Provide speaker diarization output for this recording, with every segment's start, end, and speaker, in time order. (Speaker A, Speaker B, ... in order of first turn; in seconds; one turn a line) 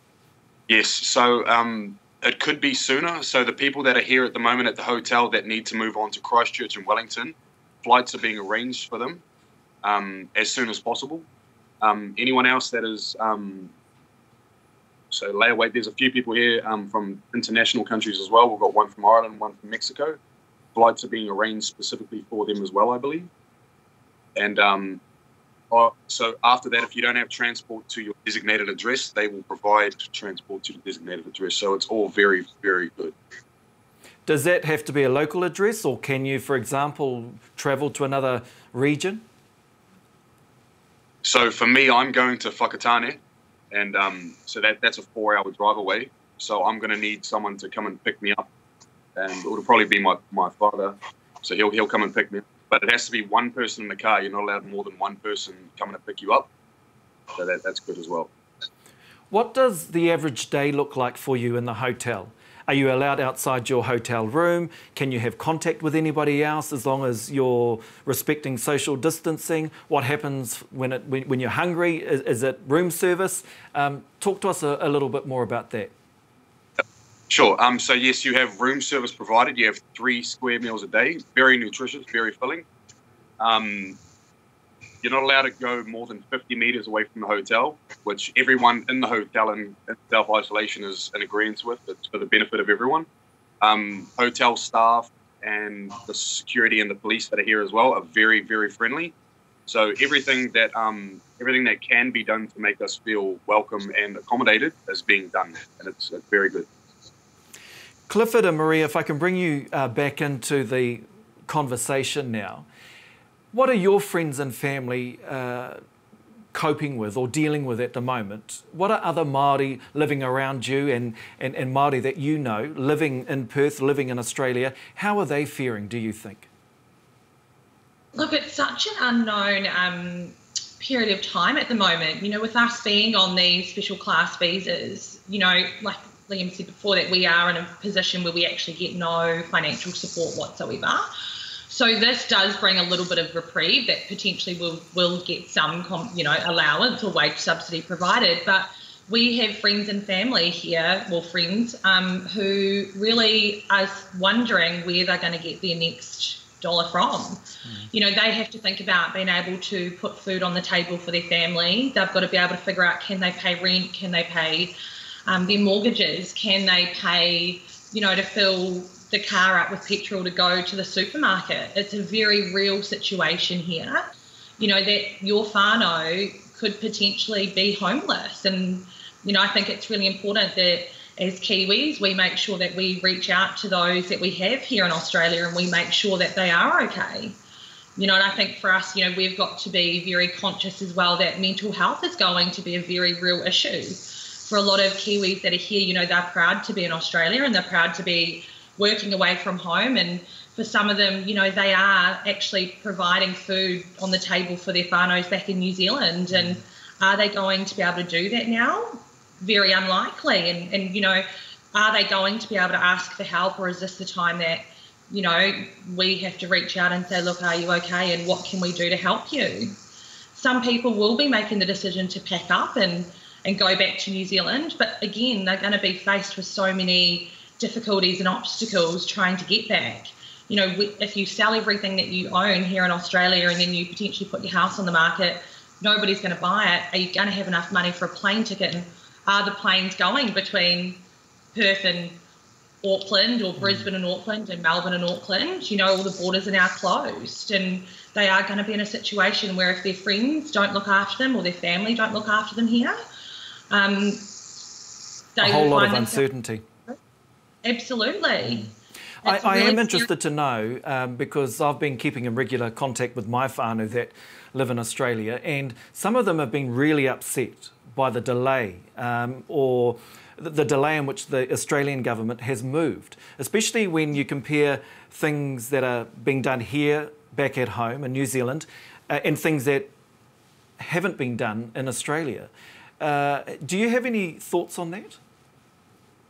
Speaker A: 0.7-9.2
Speaker A: 9.8-11.2
Speaker A: 11.8-13.7
Speaker A: 15.1-20.2
Speaker A: 20.7-23.3
Speaker A: 24.4-25.0
Speaker A: 25.7-33.1
Speaker B: 34.3-39.2
Speaker A: 41.2-43.2
Speaker A: 43.7-48.5
Speaker A: 49.1-56.5
Speaker A: 57.3-58.3
Speaker B: 59.3-75.9
Speaker A: 77.3-82.6
Speaker A: 83.4-84.0
Speaker A: 85.0-93.1
Speaker A: 93.6-99.1
Speaker A: 99.7-106.7
Speaker B: 108.1-112.7
Speaker B: 113.5-115.8
Speaker B: 116.5-126.5
Speaker C: 128.2-141.1
Speaker C: 141.7-164.7
Speaker C: 165.3-174.0
Speaker C: 174.6-187.4
Speaker C: 188.0-219.8
Speaker B: 206.3-206.6
Speaker C: 220.3-242.2
Speaker C: 242.8-253.0
Speaker B: 243.6-243.9
Speaker C: 253.7-254.4
Speaker C: 255.3-256.2
Speaker B: 255.4-256.6
Speaker C: 257.6-258.7
Speaker C: 259.2-260.1
Speaker B: 259.2-279.9
Speaker B: 280.8-285.2